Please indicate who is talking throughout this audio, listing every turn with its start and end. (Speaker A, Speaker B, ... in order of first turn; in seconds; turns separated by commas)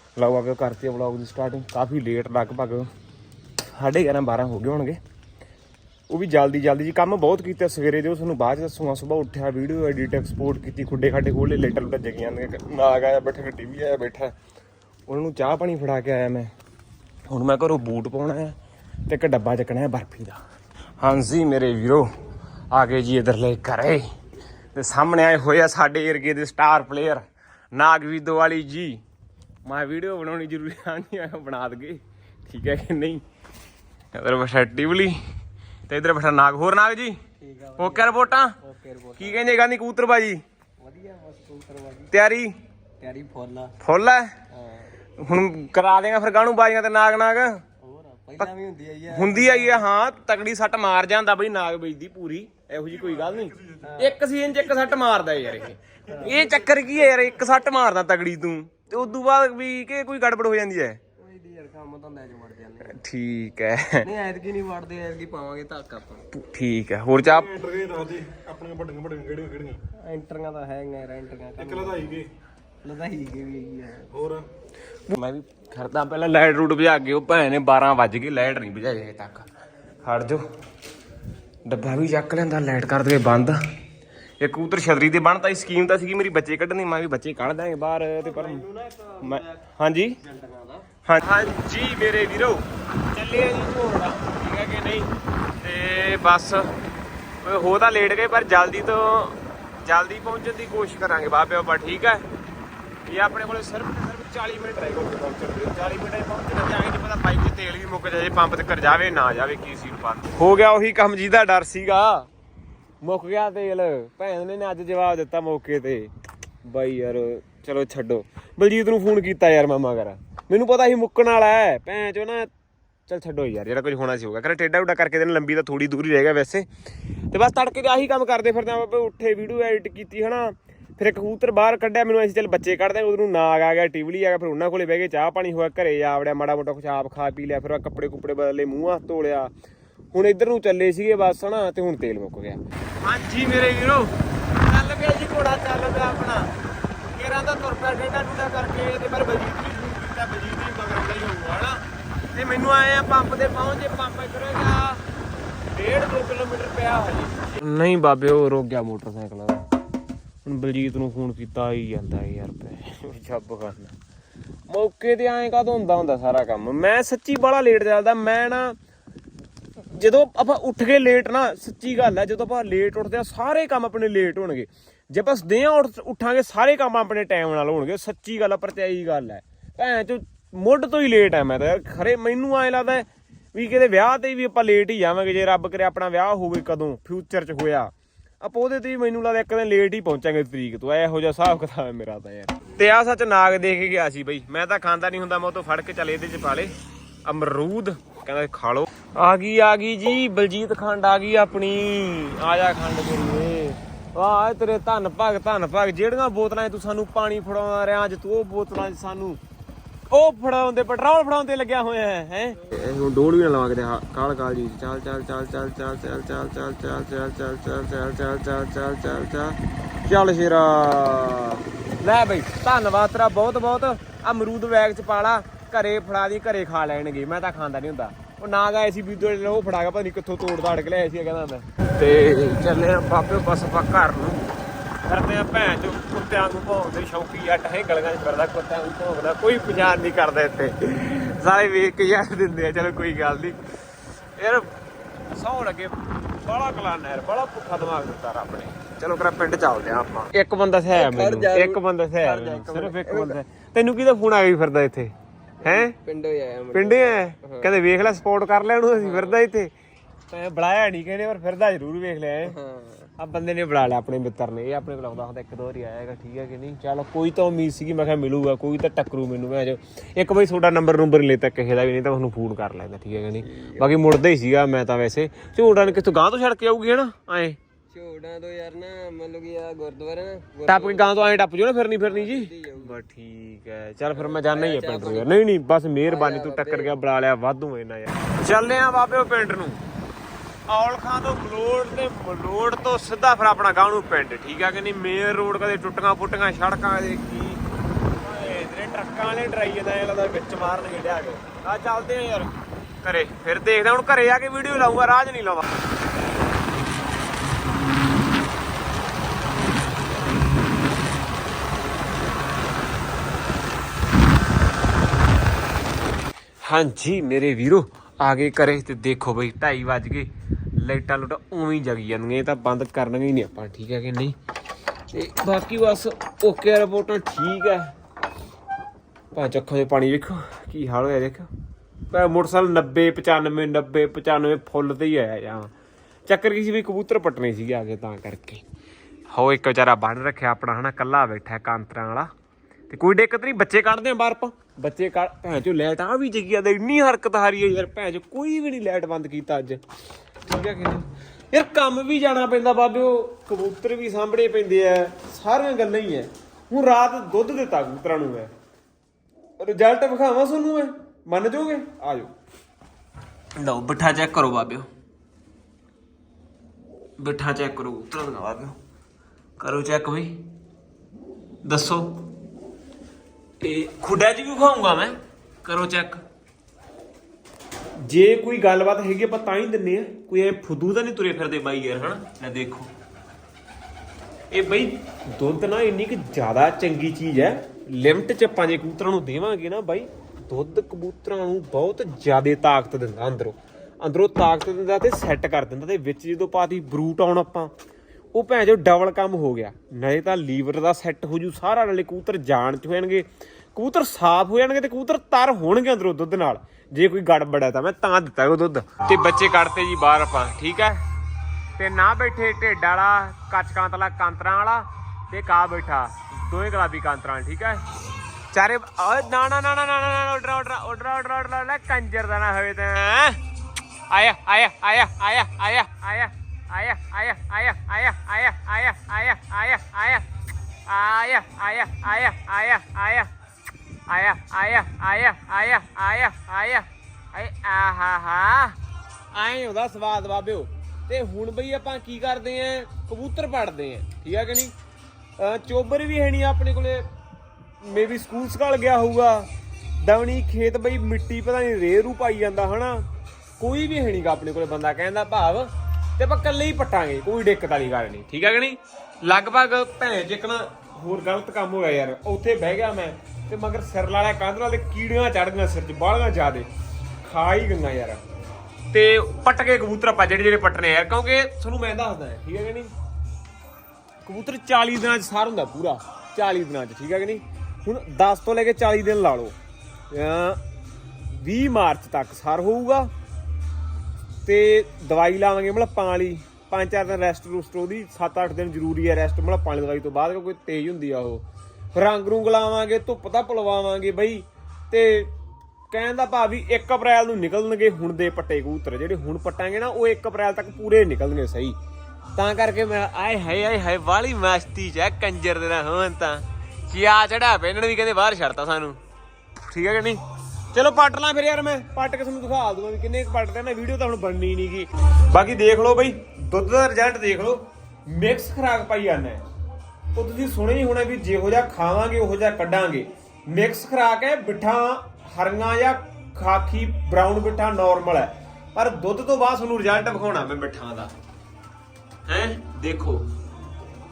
Speaker A: 0.1-2.9, Speaker A: 3.7-5.0, Speaker A: 6.1-14.3, Speaker A: 15.1-16.5, Speaker A: 17.3-20.4, Speaker A: 21.0-22.1, Speaker A: 22.7-24.1, Speaker A: 24.7-29.0, Speaker A: 29.6-33.2, Speaker A: 34.1-35.2, Speaker A: 35.9-37.2, Speaker B: 37.4-39.4, Speaker A: 37.8-38.5, Speaker A: 39.2-40.4, Speaker B: 40.8-42.1, Speaker A: 42.1-42.5, Speaker B: 43.0-43.7, Speaker A: 43.8-44.4, Speaker B: 44.5-44.9, Speaker A: 45.2-47.6, Speaker B: 47.8-49.9, Speaker A: 49.1-61.0, Speaker B: 53.8-54.2, Speaker B: 56.1-56.4, Speaker B: 61.2-63.0, Speaker A: 62.9-64.1, Speaker B: 64.0-66.2, Speaker A: 66.3-67.5, Speaker C: 67.2-69.8, Speaker B: 69.9-72.2, Speaker C: 71.6-72.3, Speaker B: 72.8-74.1, Speaker C: 74.1-74.5, Speaker A: 75.1-79.5, Speaker A: 80.0-80.4, Speaker A: 81.7-83.6, Speaker A: 84.4-88.6, Speaker B: 88.3-89.5, Speaker A: 89.2-90.2, Speaker B: 90.2-90.9, Speaker A: 91.0-96.7, Speaker A: 97.4-102.2, Speaker A: 103.1-112.3, Speaker A: 113.0-116.1, Speaker A: 116.6-122.5, Speaker A: 123.1-126.7, Speaker A: 127.3-139.5, Speaker A: 140.1-146.5, Speaker A: 147.1-151.8, Speaker A: 152.3-155.0, Speaker A: 155.7-159.7, Speaker A: 160.4-163.9, Speaker A: 164.7-168.8, Speaker A: 169.8-196.7, Speaker A: 197.2-209.4, Speaker A: 210.1-234.4, Speaker A: 235.0-243.6, Speaker A: 244.4-244.7, Speaker A: 245.3-255.9, Speaker B: 250.9-253.4, Speaker B: 255.6-257.7, Speaker A: 256.7-259.7, Speaker B: 258.9-259.4, Speaker A: 260.3-262.5, Speaker B: 262.4-263.1, Speaker A: 263.2-277.6, Speaker B: 273.4-273.9, Speaker B: 277.9-281.4, Speaker A: 280.7-289.8, Speaker B: 282.0-283.0, Speaker B: 284.1-285.4, Speaker B: 286.1-286.9, Speaker A: 290.7-297.6, Speaker A: 298.2-305.6, Speaker A: 316.6-324.4, Speaker A: 325.1-327.9, Speaker A: 329.3-331.5, Speaker A: 332.1-335.7, Speaker A: 336.2-338.6, Speaker A: 339.3-342.3, Speaker A: 342.9-349.8, Speaker A: 350.4-358.5, Speaker A: 359.6-362.3, Speaker A: 363.6-364.9, Speaker A: 367.2-368.8, Speaker A: 369.6-370.5, Speaker A: 371.6-372.3, Speaker A: 373.6-376.2, Speaker A: 378.0-382.9, Speaker A: 384.5-397.7, Speaker A: 398.3-411.0, Speaker A: 411.8-417.8, Speaker A: 418.5-423.4, Speaker A: 424.1-430.3, Speaker A: 430.9-433.3, Speaker A: 434.1-438.8, Speaker A: 439.3-444.7, Speaker A: 445.4-447.1, Speaker A: 447.8-449.5, Speaker A: 450.0-453.1, Speaker A: 453.6-466.7, Speaker A: 467.2-468.2, Speaker A: 468.9-472.9, Speaker A: 474.2-479.5, Speaker A: 480.1-480.6, Speaker A: 481.3-483.1, Speaker A: 484.4-495.3, Speaker A: 495.9-501.8, Speaker A: 502.4-509.0, Speaker A: 509.6-510.2, Speaker A: 510.7-519.4, Speaker A: 520.1-531.1, Speaker A: 532.3-533.3